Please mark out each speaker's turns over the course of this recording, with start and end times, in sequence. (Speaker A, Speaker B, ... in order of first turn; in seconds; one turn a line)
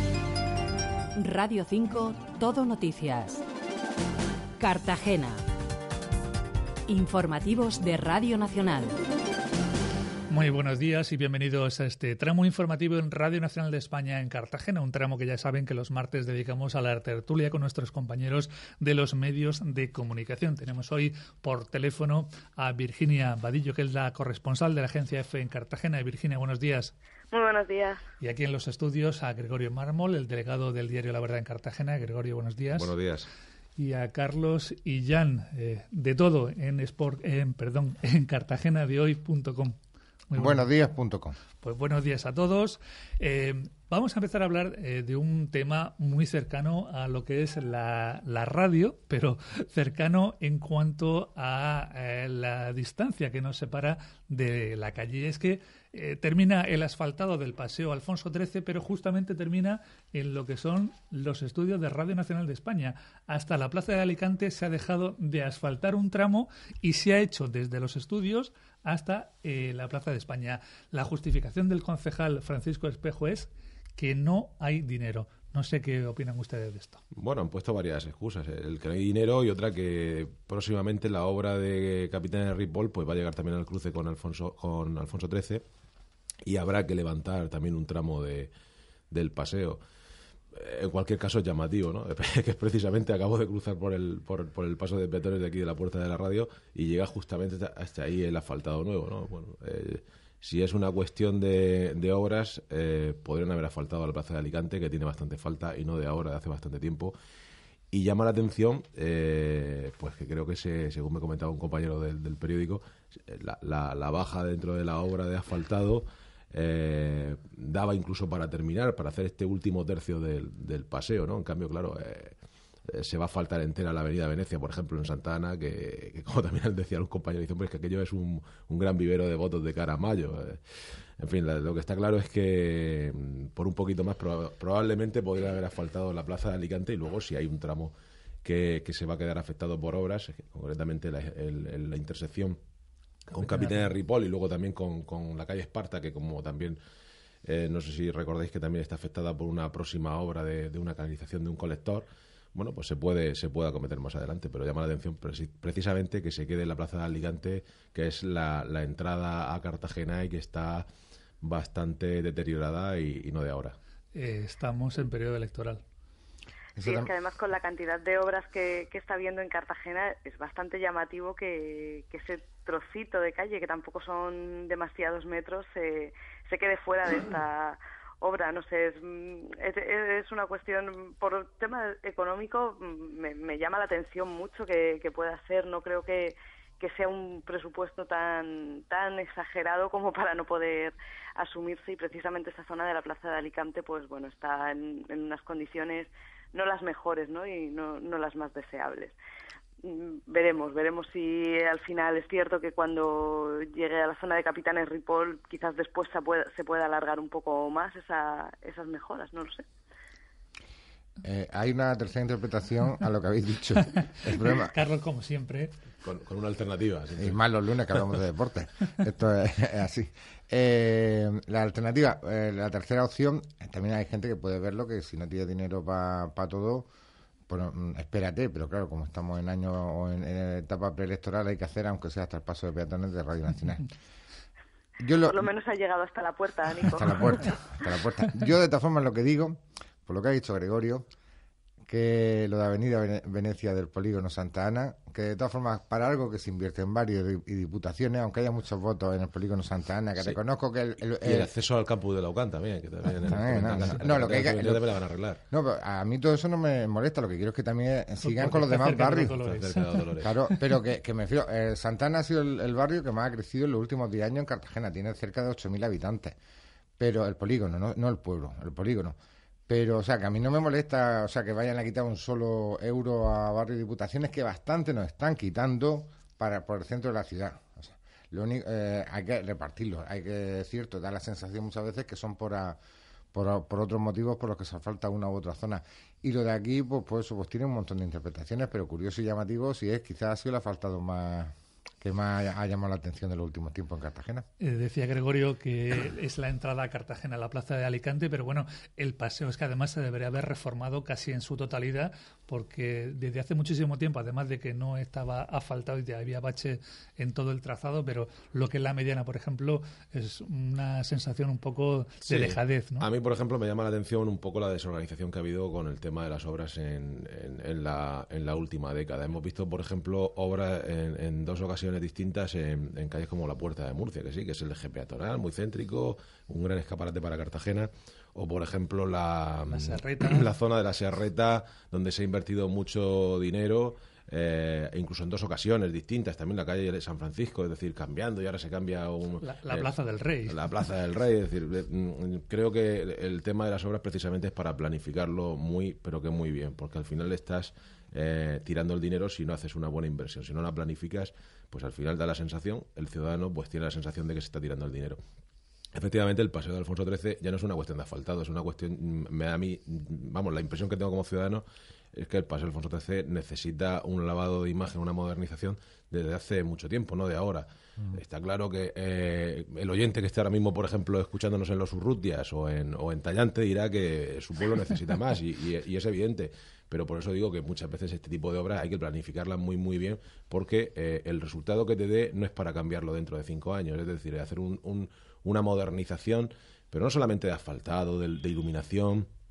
Speaker A: 1.1-3.4
Speaker A: 4.6-5.4
Speaker A: 6.9-8.9
Speaker B: 10.3-26.9
Speaker C: 27.3-28.0
Speaker B: 28.2-32.9
Speaker D: 32.7-33.3
Speaker B: 33.8-39.8
Speaker B: 40.3-40.7
Speaker E: 40.4-41.4
Speaker B: 41.6-77.0
Speaker D: 77.1-85.6
Speaker D: 86.4-88.5
Speaker D: 89.1-89.8
Speaker D: 90.5-107.1
Speaker D: 107.9-122.3
Speaker D: 122.9-130.6
Speaker D: 131.2-142.6
Speaker D: 143.3-146.8
Speaker D: 147.4-160.9
Speaker D: 161.4-163.8
Speaker B: 164.1-165.8
Speaker E: 166.8-167.1
Speaker C: 166.8-199.1
Speaker C: 199.8-209.6
Speaker E: 211.2-214.7
Speaker B: 214.4-215.8
Speaker D: 216.0-217.4
Speaker E: 217.2-226.9
Speaker E: 227.5-233.9
Speaker E: 235.0-235.5
Speaker C: 235.3-237.1
Speaker E: 236.9-241.1
Speaker E: 241.9-251.5
Speaker D: 251.2-255.4
Speaker E: 253.2-254.9
Speaker E: 255.5-259.4
Speaker B: 258.2-260.0
Speaker D: 259.4-260.3
Speaker E: 260.2-266.4
Speaker E: 267.0-269.1
Speaker E: 269.7-282.8
Speaker E: 283.3-294.4
Speaker B: 294.6-313.1
Speaker D: 312.3-339.9
Speaker B: 329.7-330.5
Speaker B: 339.4-340.6
Speaker D: 340.4-355.2
Speaker D: 355.9-389.3